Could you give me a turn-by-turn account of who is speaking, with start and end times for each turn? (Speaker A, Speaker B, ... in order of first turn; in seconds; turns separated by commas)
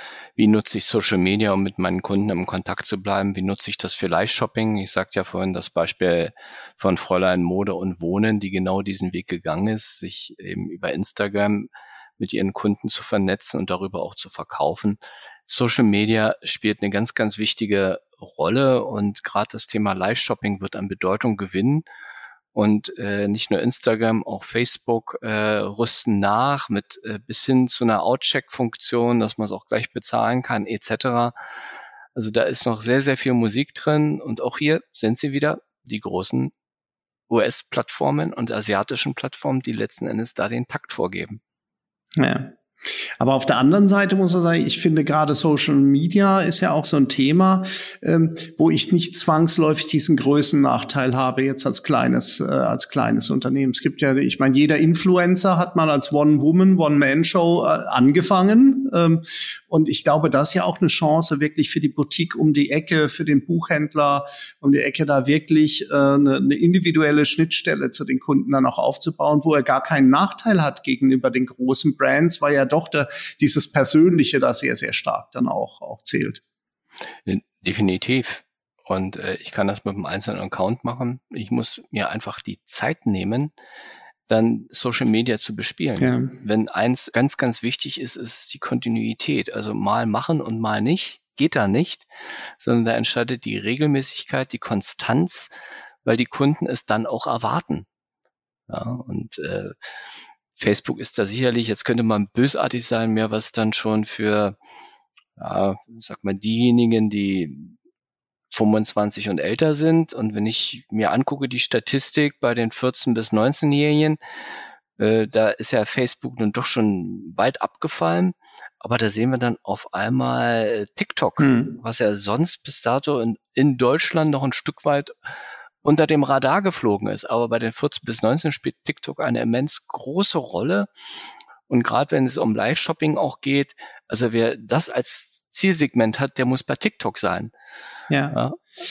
Speaker A: 0.4-21.9, Speaker A: 22.5-31.3, Speaker A: 32.1-36.5, Speaker A: 37.3-41.4, Speaker B: 42.2-42.5, Speaker B: 43.2-76.4, Speaker A: 77.3-83.5, Speaker A: 84.3-92.1, Speaker B: 86.0-86.3, Speaker A: 92.6-95.5, Speaker A: 96.0-97.9, Speaker A: 98.7-99.7, Speaker A: 100.6-104.6, Speaker A: 105.4-107.7, Speaker A: 108.5-114.2, Speaker A: 115.0-125.1, Speaker B: 121.4-121.7, Speaker A: 125.8-130.9, Speaker A: 131.7-137.5, Speaker B: 138.1-138.4, Speaker A: 138.3-138.6